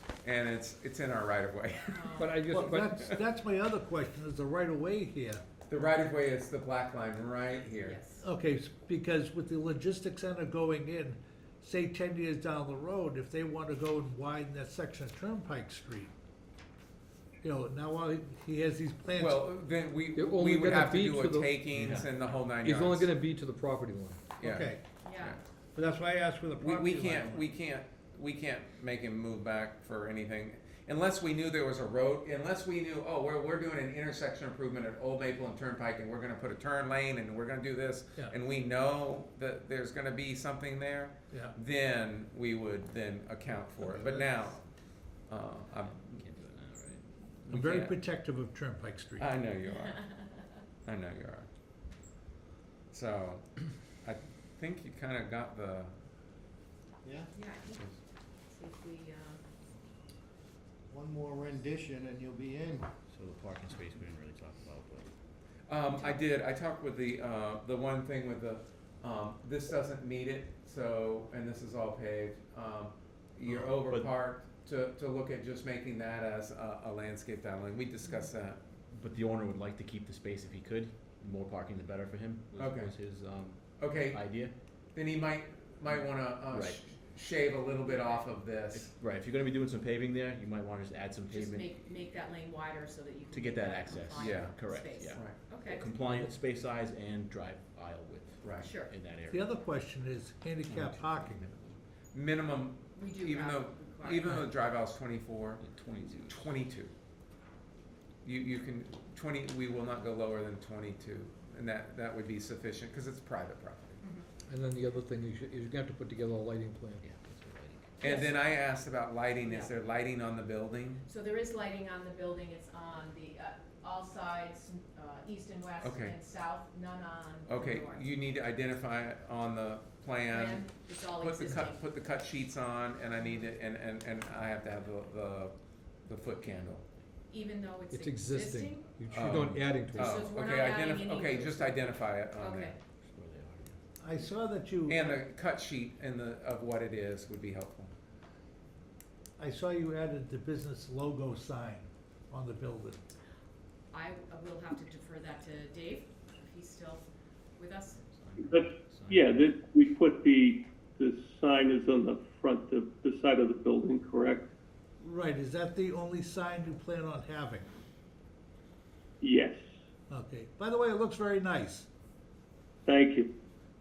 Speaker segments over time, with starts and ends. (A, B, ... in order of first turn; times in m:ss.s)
0:00.2-0:03.1 A
0:01.9-0:02.5 B
0:02.2-0:03.0 C
0:02.5-0:05.4 D
0:05.7-0:08.0 A
0:07.8-0:08.3 B
0:08.2-0:16.1 D
0:17.4-0:19.4 D
0:19.2-0:23.1 A
0:20.1-0:24.2 C
0:21.7-0:22.2 E
0:24.4-0:25.4 A
0:24.4-0:24.8 D
0:25.0-0:25.4 B
0:25.8-0:27.4 D
0:26.6-0:46.2 A
0:41.3-0:41.6 D
0:43.8-0:44.4 D
0:45.8-0:47.1 E
0:47.4-0:48.0 A
0:47.5-0:49.3 D
0:49.2-0:50.1 A
0:50.8-0:51.5 A
0:52.9-0:56.0 A
0:57.0-0:57.3 F
0:57.3-0:59.4 B
1:00.9-1:02.9 F
1:03.1-1:05.1 E
1:05.7-1:18.6 A
1:05.9-1:06.2 B
1:13.4-1:14.2 E
1:18.0-1:18.3 B
1:18.9-1:24.5 E
1:22.5-1:23.0 A
1:23.8-1:28.9 A
1:26.5-1:26.8 E
1:27.2-1:28.3 B
1:28.7-1:31.7 E
1:31.3-1:35.9 B
1:33.3-1:39.5 E
1:34.2-1:34.6 A
1:35.1-1:35.4 A
1:38.4-1:38.7 A
1:38.6-1:38.9 B
1:39.3-1:41.4 D
1:40.7-1:41.8 E
1:42.1-1:45.6 A
1:42.9-1:44.5 B
1:45.6-1:46.6 E
1:46.3-1:46.9 A
1:48.2-1:54.0 A
1:54.0-1:54.3 B
1:54.5-1:57.0 C
1:57.0-1:57.9 E
1:58.0-2:01.0 A
1:58.0-1:58.8 B
1:59.4-1:59.7 B
2:01.0-2:08.1 B
2:05.8-2:06.2 A
2:07.5-2:16.8 A
2:10.3-2:11.8 B
2:13.2-2:13.5 B
2:17.3-2:19.0 B
2:17.9-2:20.3 C
2:19.1-2:22.8 A
2:19.9-2:22.8 B
2:23.1-2:23.8 E
2:24.0-2:25.1 D
2:24.9-2:27.9 A
2:29.4-2:33.0 D
2:33.9-2:38.0 B
2:38.0-2:39.6 E
2:38.5-2:44.5 G
2:45.0-2:47.7 D
2:49.2-2:49.6 G
2:50.1-2:51.9 D
2:52.9-2:53.3 G